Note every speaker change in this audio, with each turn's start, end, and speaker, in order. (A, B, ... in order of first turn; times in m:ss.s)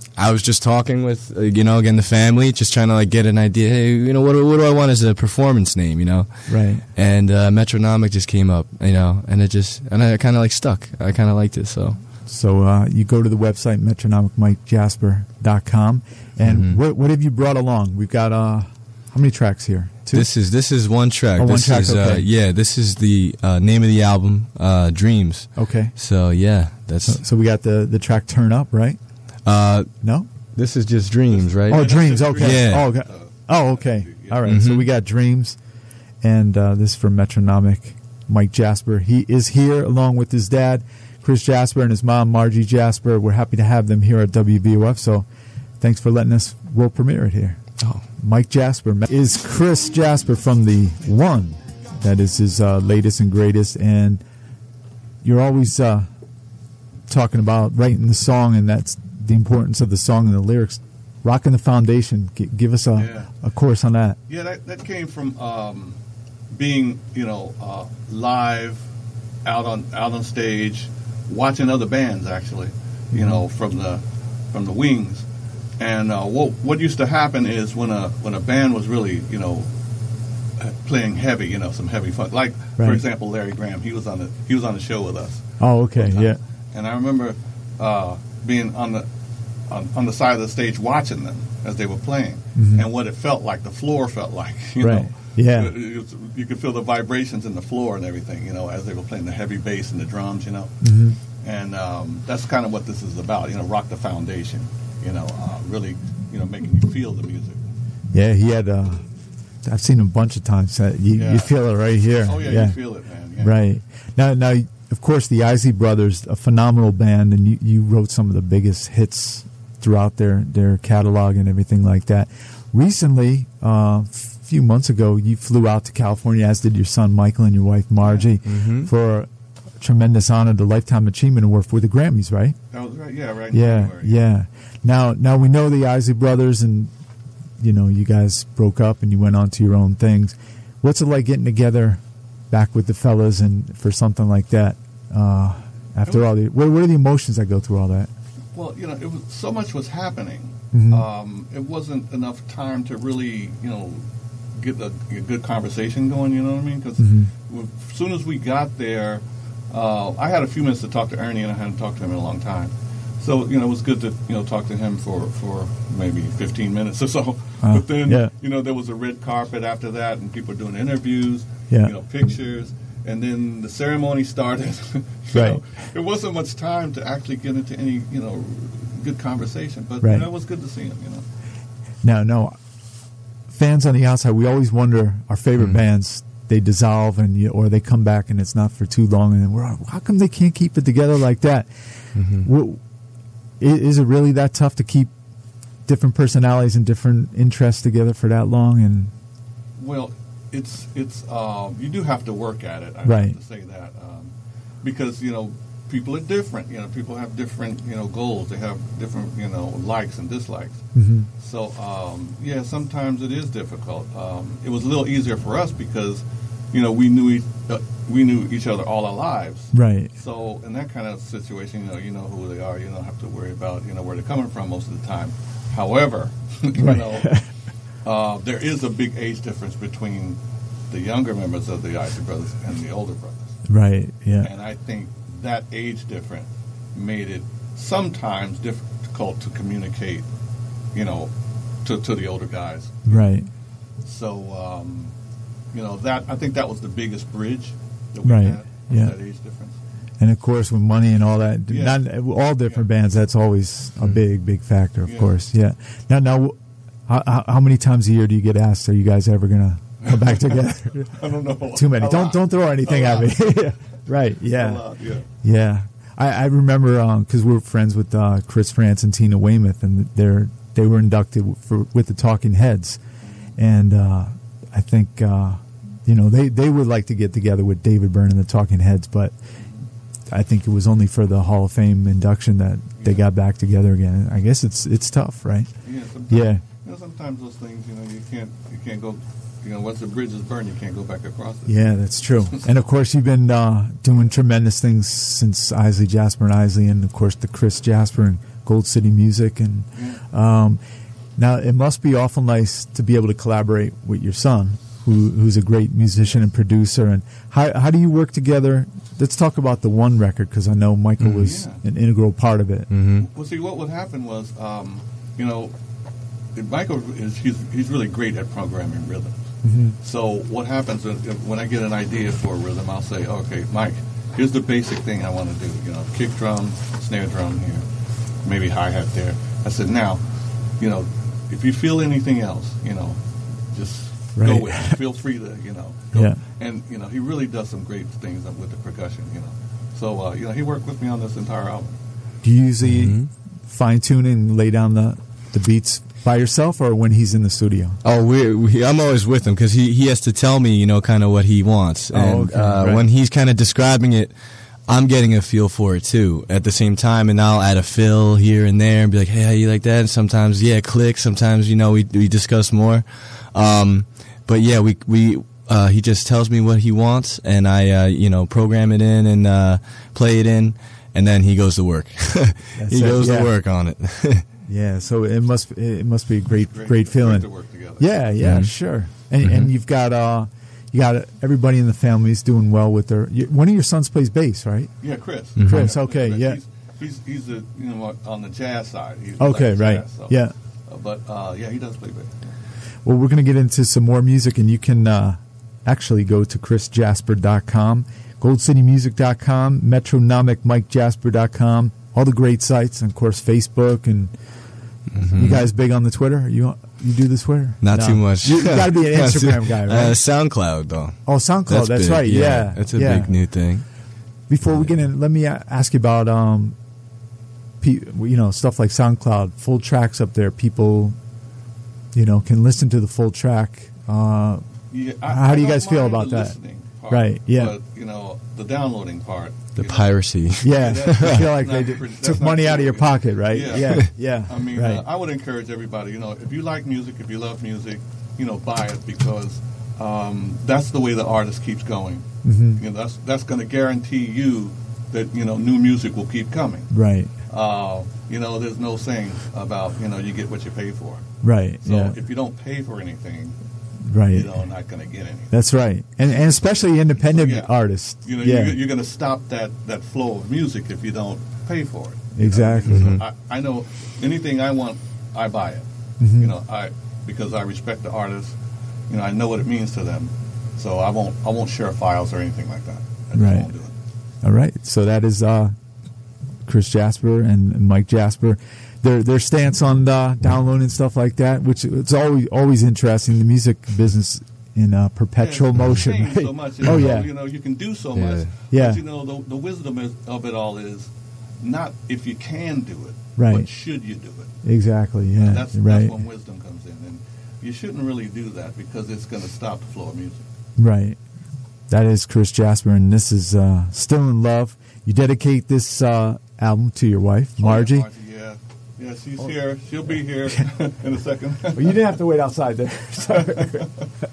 0:00.2-0:12.0 A
0:06.5-0:06.8 B
0:12.3-0:20.3 B
0:16.5-0:16.8 A
0:20.1-0:27.2 A
0:21.4-0:22.3 B
0:25.6-0:25.9 B
0:27.0-0:29.0 B
0:29.4-0:29.9 A
0:30.0-0:30.3 B
0:30.5-0:32.9 A
0:31.3-0:34.4 C
0:31.7-0:35.6 B
0:34.4-0:34.9 A
0:36.2-0:45.3 B
0:45.8-0:47.6 B
0:48.2-0:54.2 B
0:55.2-0:56.1 B
0:57.1-1:04.2 B
1:03.0-1:03.3 C
1:04.3-1:06.0 C
1:06.5-1:08.8 C
1:09.4-1:15.2 C
1:13.1-1:13.4 B
1:15.8-1:19.7 C
1:20.6-1:29.1 C
1:25.6-1:26.4 B
1:29.7-1:47.6 C
1:32.6-1:32.8 B
1:34.8-1:35.7 B
1:40.8-1:41.2 B
1:48.1-1:49.1 B
1:49.6-1:52.8 B
1:51.1-1:53.6 C
1:53.4-2:09.3 B
2:08.4-2:08.9 A
2:09.8-2:12.6 B
2:12.7-2:14.2 C
2:13.5-2:16.9 B
2:17.6-2:28.1 B
2:28.5-2:34.0 C
2:30.7-2:31.1 B
2:34.6-3:01.2 C
2:37.0-2:37.3 B
2:47.6-2:48.3 B
2:55.3-2:55.6 B
3:00.0-3:00.3 B
3:02.0-3:02.6 B
3:03.5-3:11.7 B
3:12.2-3:12.5 A
3:12.4-3:12.8 B
3:13.6-3:15.1 B
3:15.9-3:19.1 B
3:19.8-3:24.3 C
3:23.0-3:23.4 B
3:24.8-3:30.9 C
3:31.0-3:31.3 B
3:31.4-3:47.4 C
3:39.7-3:40.1 B
3:46.8-3:47.5 B
3:48.0-3:50.4 C
3:50.9-3:53.6 C
3:53.7-3:54.5 B
3:54.4-4:00.3 C
4:00.9-4:01.3 C
4:01.8-4:03.2 C
4:03.1-4:03.5 B
4:04.0-4:05.1 C
4:05.7-4:09.8 C
4:08.2-4:09.1 B
4:10.2-4:16.6 B
4:11.7-4:12.0 C
4:15.1-4:15.3 C
4:17.1-4:21.2 B
4:20.1-4:23.7 C
4:21.7-4:24.9 B
4:24.4-4:25.3 C
4:25.4-4:33.0 B
4:33.6-4:39.3 B
4:40.3-4:45.7 B
4:45.8-4:51.8 C
4:46.3-4:46.6 B
4:51.7-5:00.8 B
5:00.0-5:00.2 C
5:01.4-5:12.9 B
5:11.4-5:11.8 C
5:12.9-5:13.3 A
5:13.2-5:15.7 C
5:16.6-5:19.4 C
5:19.6-5:20.0 B
5:20.0-5:27.8 C
5:28.4-5:30.2 C
5:30.8-5:33.2 C
5:33.7-5:42.0 C
5:34.4-5:35.0 B
5:36.1-5:36.4 B
5:42.4-5:48.0 B
5:42.8-5:43.3 A
5:48.0-5:54.3 A
5:52.1-5:53.1 B
5:54.9-6:14.4 A
6:12.8-6:13.5 B
6:14.7-6:17.5 B
6:16.7-6:18.3 C
6:18.0-6:24.9 B
6:18.4-6:18.7 A
6:19.4-6:19.7 A
6:25.0-6:32.6 C
6:25.6-6:25.9 A
6:25.6-6:26.6 B
6:29.4-6:30.5 B
6:33.0-6:44.3 B
6:45.1-6:45.6 A
6:45.2-6:50.2 B
6:47.8-6:53.9 A
6:51.3-6:53.4 B
6:54.5-6:56.8 B
6:57.8-7:01.2 B
7:02.1-7:04.7 B
7:04.9-7:26.9 C
7:05.3-7:06.6 B
7:07.1-7:07.7 B
7:09.8-7:11.4 A
7:10.6-7:15.0 B
7:22.4-7:22.8 B
7:26.9-7:27.3 B
7:27.5-7:31.3 C
7:31.4-7:32.2 B
7:31.8-7:33.6 C
7:34.1-7:34.5 B
7:34.3-7:35.5 C
7:35.5-7:38.8 B
7:37.2-7:45.9 C
7:42.4-7:43.2 B
7:42.9-7:43.2 A
7:46.2-7:46.5 B
7:46.4-7:48.6 C
7:49.1-7:53.9 C
7:53.4-7:53.7 B
7:54.4-7:55.7 B
7:56.7-8:07.3 B
8:05.4-8:11.1 C
8:08.2-8:08.5 A
8:08.7-8:09.0 B
8:11.6-8:14.6 C
8:13.4-8:13.7 B
8:14.6-8:16.2 B
8:15.3-8:20.4 C
8:20.8-8:21.2 B
8:21.9-8:28.1 B
8:27.6-8:32.0 C
8:31.7-8:33.9 B
8:33.3-8:33.9 C